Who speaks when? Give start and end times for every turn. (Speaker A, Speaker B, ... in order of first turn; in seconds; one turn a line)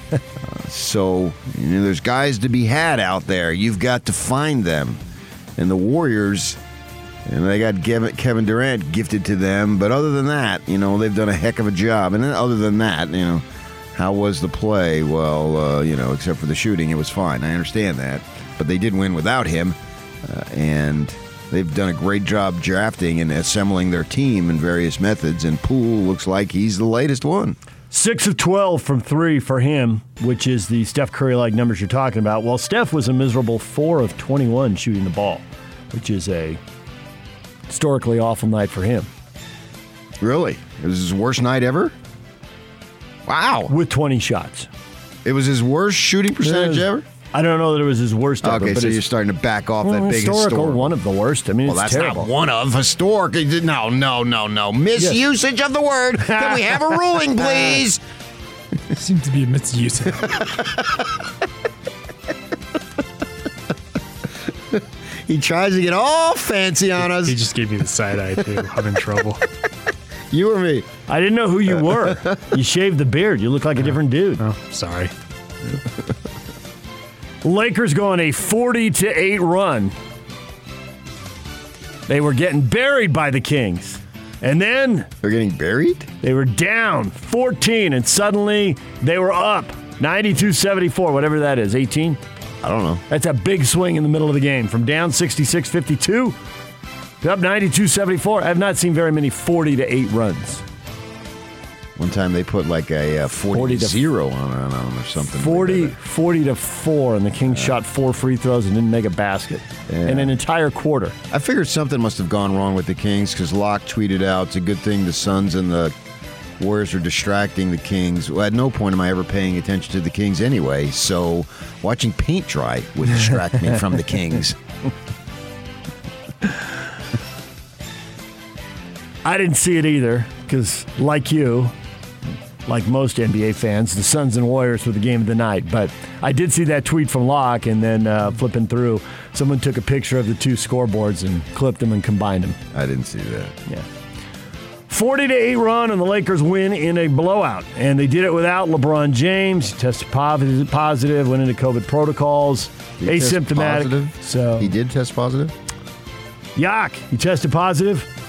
Speaker A: 0.5-5.0
Speaker A: 5.6-6.6
Speaker A: 7.2-13.4
Speaker A: 13.9-27.6
Speaker B: 27.9-36.6
Speaker B: 37.7-39.1
Speaker A: 40.2-41.9
Speaker A: 43.2-43.7
Speaker B: 43.7-44.7
Speaker A: 45.2-47.0
Speaker B: 46.4-49.0
Speaker A: 48.4-50.9
Speaker B: 49.8-52.3
Speaker A: 51.6-58.0
Speaker B: 56.2-57.8
Speaker C: 58.9-60.5
Speaker A: 65.2-67.4
Speaker C: 67.1-69.4
Speaker A: 70.3-70.9
Speaker B: 71.1-74.4
Speaker C: 74.4-75.1
Speaker B: 77.4-79.9
Speaker B: 82.1-85.1
Speaker A: 85.2-86.1
Speaker B: 86.2-92.2
Speaker A: 92.6-93.0
Speaker B: 93.1-96.3
Speaker B: 97.2-100.6
Speaker A: 102.0-106.0
Speaker B: 103.5-104.0
Speaker B: 105.3-111.1
Speaker A: 107.5-107.8
Speaker A: 109.9-110.4
Speaker A: 111.3-115.9
Speaker A: 116.6-124.6
Speaker B: 129.2-131.7
Speaker B: 132.7-142.6
Speaker A: 142.7-143.5
Speaker B: 144.9-154.7
Speaker A: 153.0-155.5
Speaker B: 156.5-158.1